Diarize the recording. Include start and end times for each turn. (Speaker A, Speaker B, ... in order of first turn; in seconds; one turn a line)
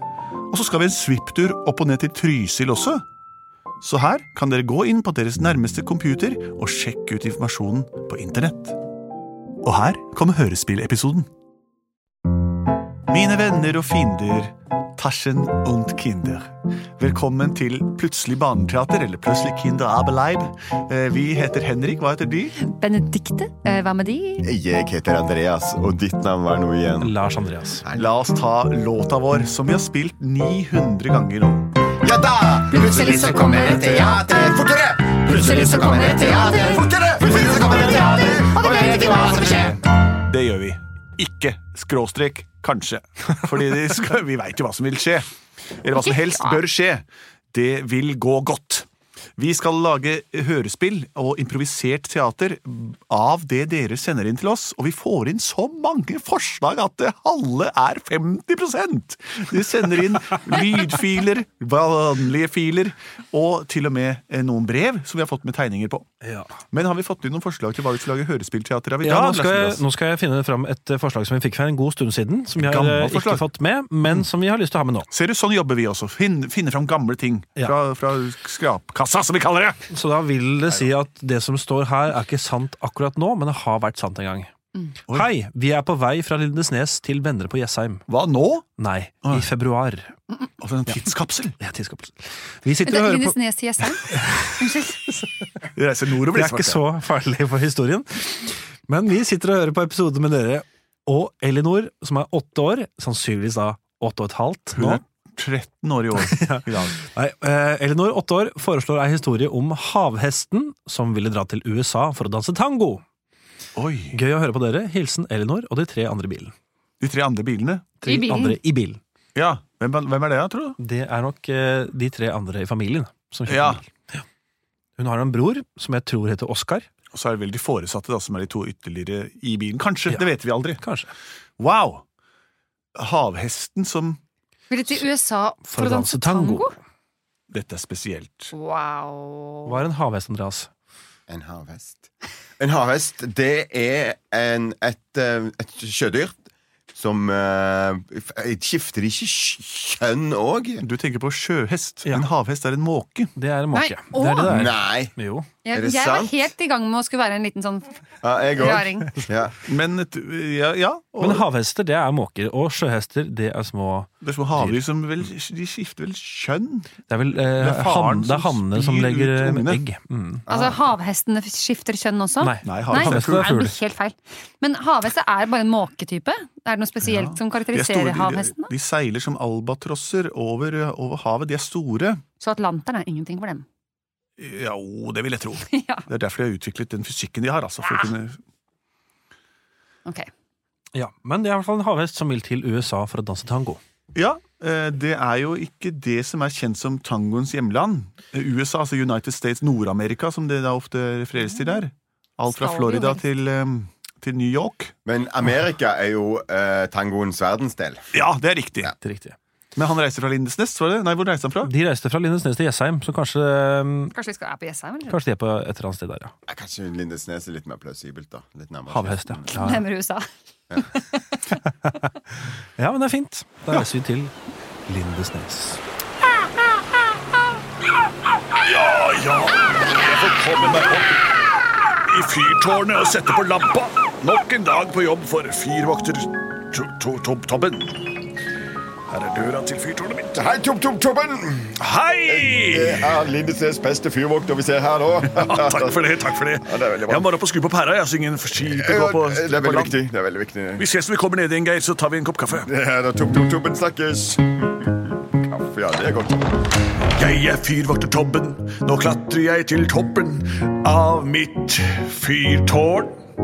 Speaker A: 0.5-3.0
Speaker A: 3.8-8.8
Speaker A: 9.6-11.3
Speaker A: 13.1-22.6
Speaker B: 22.6-24.5
Speaker C: 24.4-27.2
Speaker D: 27.0-27.8
Speaker C: 27.8-28.1
Speaker A: 27.9-31.7
Speaker C: 32.0-39.8
Speaker B: 32.7-34.5
Speaker B: 35.2-39.8
Speaker A: 40.2-45.3
Speaker A: 45.8-66.1
Speaker B: 45.9-46.6
Speaker D: 66.2-66.5
Speaker A: 66.7-69.8
Speaker D: 69.0-75.1
Speaker A: 72.6-73.5
Speaker A: 75.1-79.8
Speaker D: 79.9-84.5
Speaker D: 85.1-88.0
Speaker A: 88.1-88.7
Speaker D: 88.8-90.2
Speaker A: 89.2-89.5
Speaker A: 90.6-91.6
Speaker D: 91.6-95.5
Speaker B: 92.8-95.2
Speaker A: 95.7-96.8
Speaker D: 96.3-105.0
Speaker A: 104.7-107.0
Speaker D: 106.2-113.0
Speaker A: 113.8-114.2
Speaker D: 114.1-116.5
Speaker A: 117.0-117.9
Speaker D: 118.0-119.0
Speaker B: 118.0-118.6
Speaker A: 119.3-120.8
Speaker D: 120.8-124.2
Speaker A: 123.5-123.8
Speaker D: 125.0-126.9
Speaker A: 127.1-130.8
Speaker D: 130.8-131.1
Speaker A: 131.6-132.0
Speaker A: 133.0-134.2
Speaker B: 134.7-136.7
Speaker D: 135.7-136.7
Speaker A: 137.5-138.5
Speaker B: 138.5-139.8
Speaker D: 139.7-140.7
Speaker C: 141.3-142.1
Speaker C: 142.6-146.4
Speaker C: 146.9-150.8
Speaker A: 150.8-153.3
Speaker D: 153.3-155.5
Speaker B: 153.7-154.7
Speaker C: 154.4-155.1
Speaker B: 155.7-158.0
Speaker C: 155.7-156.4
Speaker C: 158.2-159.6
Speaker B: 158.5-159.1
Speaker A: 159.7-161.5
Speaker D: 161.2-164.8
Speaker A: 164.2-166.9
Speaker D: 167.1-170.4
Speaker A: 167.6-169.8
Speaker C: 170.5-170.8
Speaker B: 170.5-178.7
Speaker D: 172.4-173.8
Speaker A: 172.6-173.5
Speaker A: 177.0-182.2
Speaker B: 182.4-183.7
Speaker A: 184.4-188.4
Speaker B: 185.7-186.0
Speaker D: 190.9-193.8
Speaker A: 194.2-204.9
Speaker B: 202.5-203.2
Speaker C: 205.1-208.1
Speaker A: 208.1-208.9
Speaker D: 209.0-209.3
Speaker A: 209.8-211.7
Speaker D: 211.7-214.1
Speaker B: 214.1-215.2
Speaker D: 215.1-216.3
Speaker C: 216.5-219.5
Speaker D: 218.9-219.8
Speaker B: 219.5-220.3
Speaker B: 220.8-221.4
Speaker D: 221.7-222.1
Speaker D: 222.8-224.3
Speaker D: 224.9-225.8
Speaker A: 228.6-231.2
Speaker A: 232.0-238.1
Speaker A: 239.1-240.3
Speaker C: 240.3-247.3
Speaker A: 241.8-243.1
Speaker A: 245.3-249.9
Speaker C: 248.6-250.8
Speaker A: 250.8-252.7
Speaker C: 252.7-256.6
Speaker A: 257.1-263.2